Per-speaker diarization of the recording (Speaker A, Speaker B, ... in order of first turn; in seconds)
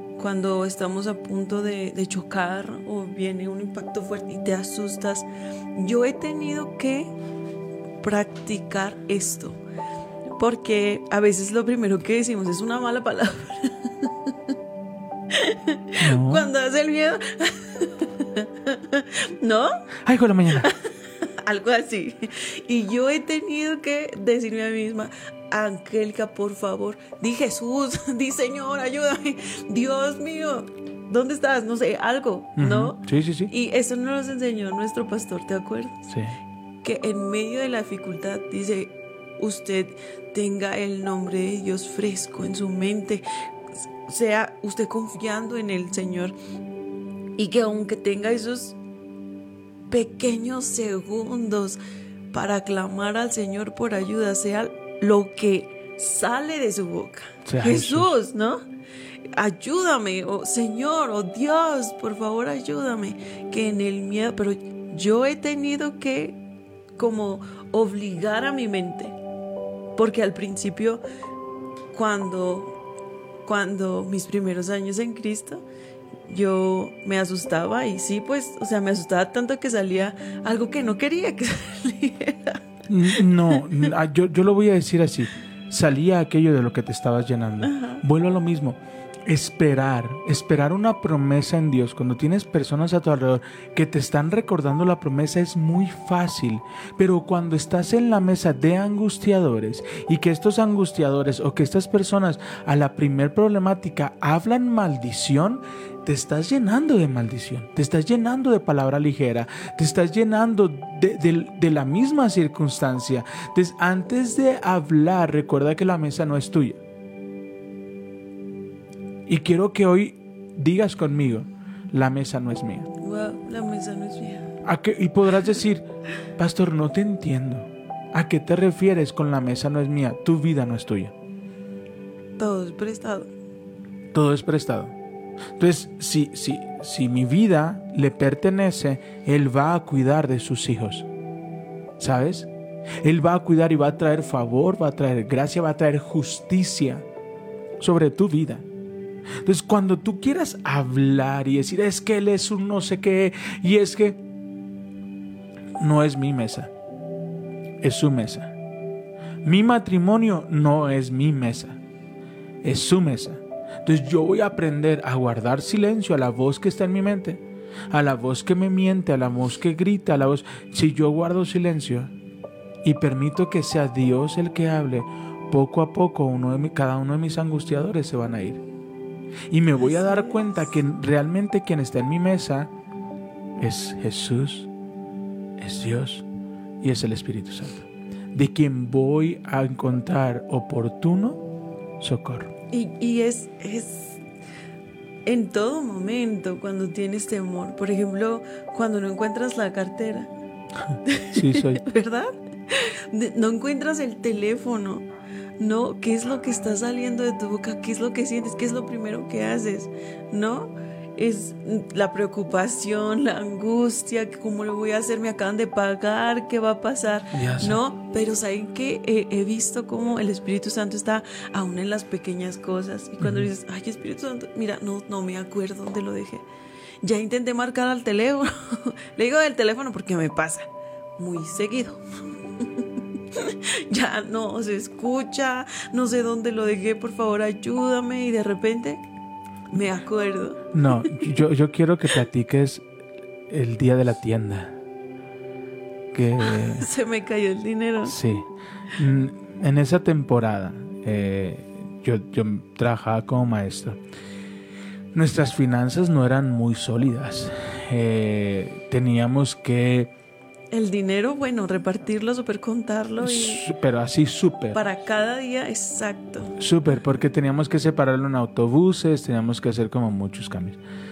Speaker A: 0.2-7.1, 8.0-9.6, 10.3-14.3, 15.3-19.7, 20.6-36.1, 36.8-43.2, 44.0-46.3, 47.4-48.8, 49.9-51.8, 52.3-58.6, 59.3-66.4, 67.0-69.2, 70.0-71.0, 71.9-72.7, 73.4-75.6, 76.3-83.8, 87.6-88.0, 123.0-124.5, 132.4-133.3, 179.8-180.5, 192.7-194.2, 195.2-200.3, 201.0-205.1, 205.6-226.4, 227.0-232.0, 233.3-239.0, 239.7-240.7, 246.4-248.2, 260.7-263.6, 264.7-266.6
Speaker B: 16.0-16.5, 20.0-20.7, 32.6-33.5, 36.1-36.4, 57.4-58.1, 82.9-116.8, 119.3-122.9, 124.6-125.8, 126.3-131.1, 134.1-134.9, 135.6-141.1, 142.0-142.5, 143.0-147.0, 147.8-148.7, 149.4-154.2, 155.8-156.7, 157.8-158.5, 159.4-161.8, 162.6-172.1, 172.8-178.6, 179.5-182.7, 183.6-184.7, 185.6-186.2, 186.8-191.4, 192.0-192.5, 200.8-201.8, 217.3-217.8, 223.2-223.5, 240.7-242.8, 243.5-244.8, 246.1-246.9, 248.0-254.0, 255.1-260.1, 263.2-264.8, 266.6-270.8